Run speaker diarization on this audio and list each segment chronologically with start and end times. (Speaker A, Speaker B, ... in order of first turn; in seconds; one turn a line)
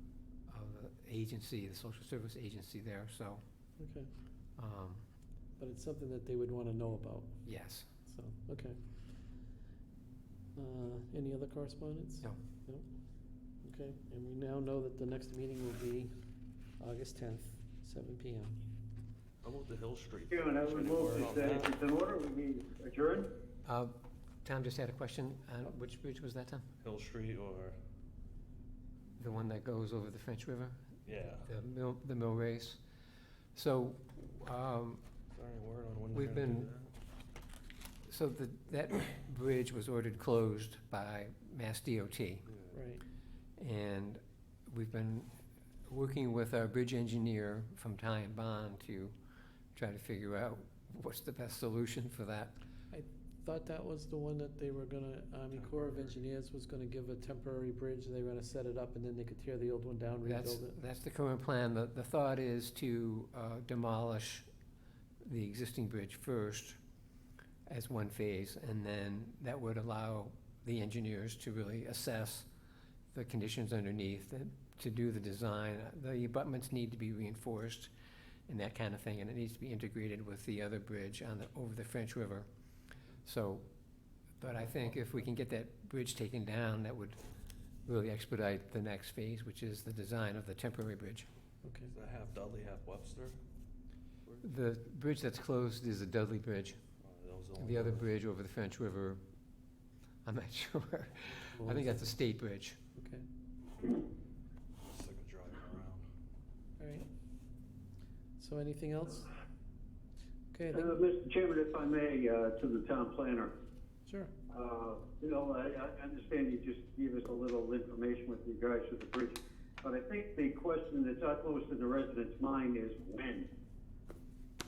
Speaker A: 0.5-3.4
Speaker B: 3.8-4.1
Speaker A: 4.6-5.0
Speaker B: 5.6-7.4
Speaker A: 7.5-7.9
Speaker B: 8.0-8.8
Speaker B: 10.6-12.8
Speaker B: 13.6-16.1
Speaker B: 16.8-18.6
Speaker C: 19.4-21.7
Speaker D: 20.3-23.3
Speaker A: 23.6-26.6
Speaker C: 26.8-27.8
Speaker A: 29.2-32.8
Speaker C: 31.0-31.5
Speaker A: 33.5-35.0
Speaker C: 35.3-36.9
Speaker A: 36.1-36.7
Speaker A: 38.0-42.5
Speaker C: 42.5-42.7
Speaker B: 42.7-43.0
Speaker A: 43.6-45.3
Speaker A: 45.9-49.1
Speaker A: 49.7-52.5
Speaker B: 52.9-60.8
Speaker C: 55.7-56.0
Speaker A: 60.2-64.4
Speaker A: 65.2-66.8
Speaker A: 67.7-72.5
Speaker A: 73.1-77.9
Speaker A: 78.5-82.5
Speaker A: 83.2-83.6
Speaker A: 84.4-87.2
Speaker A: 87.8-91.3
Speaker B: 91.6-91.9
Speaker C: 91.9-93.4
Speaker A: 94.4-96.8
Speaker C: 97.0-98.1
Speaker A: 97.6-99.2
Speaker A: 100.2-102.8
Speaker B: 101.6-101.9
Speaker B: 103.0-103.2
Speaker C: 104.8-106.0
Speaker B: 106.8-107.1
Speaker B: 108.4-109.3
Speaker B: 110.5-111.0
Speaker D: 110.7-113.5
Speaker B: 114.0-114.3
Speaker D: 114.5-123.5